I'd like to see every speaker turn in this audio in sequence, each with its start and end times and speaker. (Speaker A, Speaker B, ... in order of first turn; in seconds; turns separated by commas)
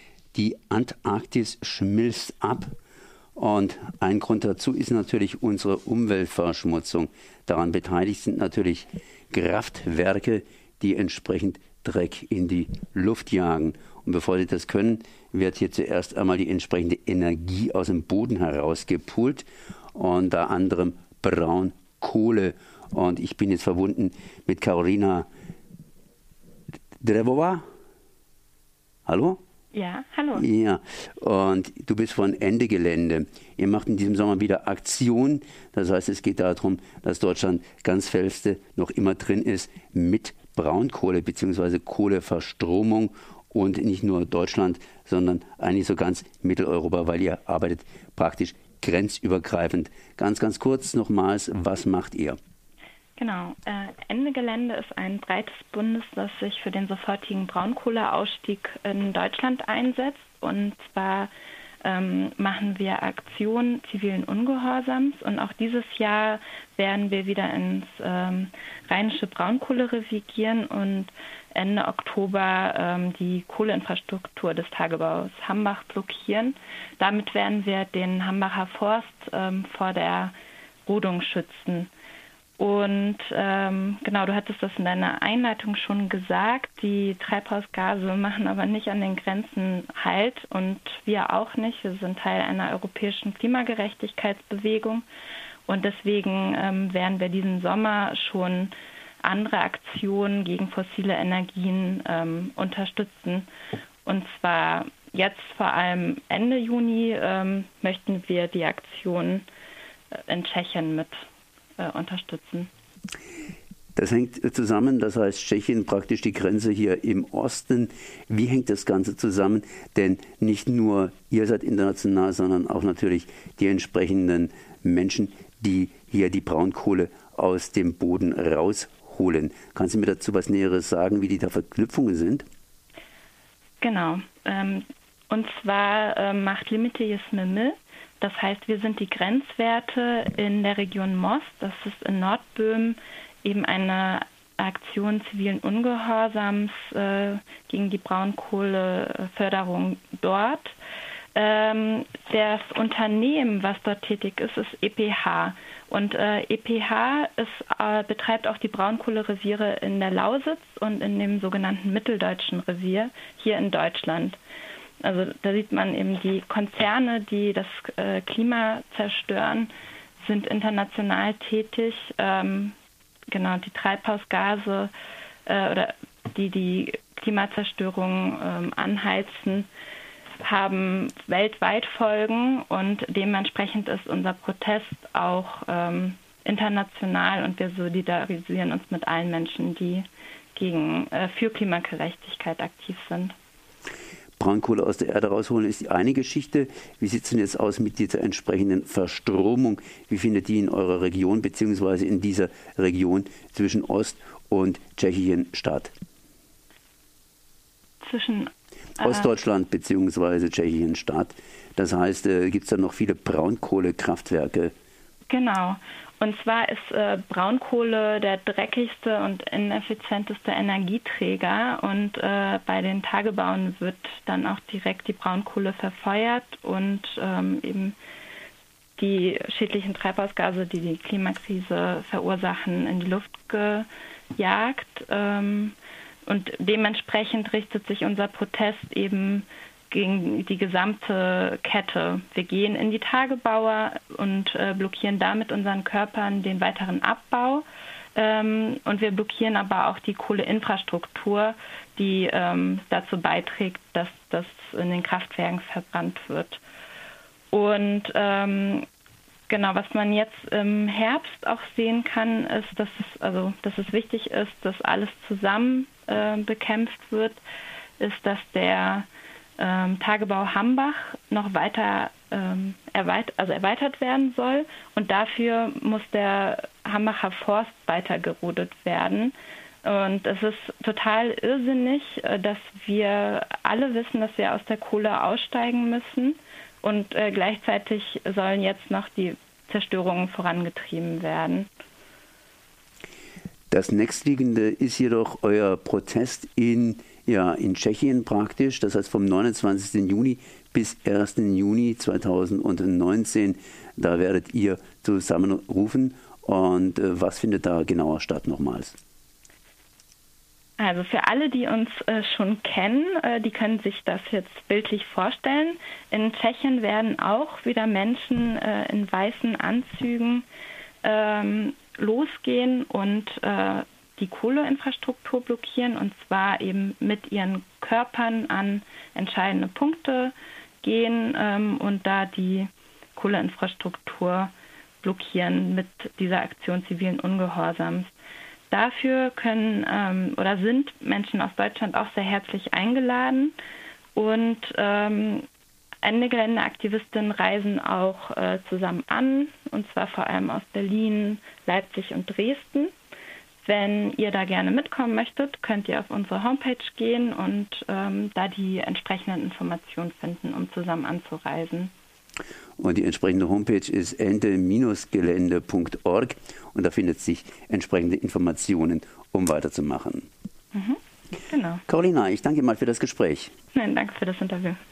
Speaker A: 0.3-2.7, Speaker A: 3.4-25.3, Speaker A: 27.0-27.6, Speaker A: 29.1-29.4, Speaker B: 29.7-30.4, Speaker A: 30.3-52.4, Speaker B: 53.2-61.3, Speaker B: 61.8-80.3, Speaker B: 80.8-81.9, Speaker B: 82.6-95.0, Speaker B: 95.7-103.5, Speaker B: 104.0-109.5, Speaker B: 110.1-111.2, Speaker B: 111.8-112.7, Speaker A: 114.0-132.4, Speaker B: 133.8-150.7, Speaker B: 151.3-164.4, Speaker B: 165.0-172.7, Speaker B: 173.3-174.9, Speaker B: 175.4-179.7, Speaker B: 180.4-193.3, Speaker A: 194.4-205.9, Speaker B: 208.0-209.3, Speaker A: 209.0-214.7, Speaker B: 215.3-227.9, Speaker B: 229.0-256.6, Speaker B: 257.5-258.9, Speaker B: 259.5-267.4, Speaker B: 268.0-269.1, Speaker B: 269.6-291.7, Speaker A: 293.7-308.9, Speaker B: 310.8-320.4, Speaker B: 321.0-338.1, Speaker B: 338.7-343.5, Speaker B: 344.1-345.5, Speaker B: 346.0-352.9, Speaker B: 353.6-361.9, Speaker A: 362.8-370.3, Speaker B: 370.7-371.8, Speaker A: 371.9-373.5, Speaker B: 373.7-374.8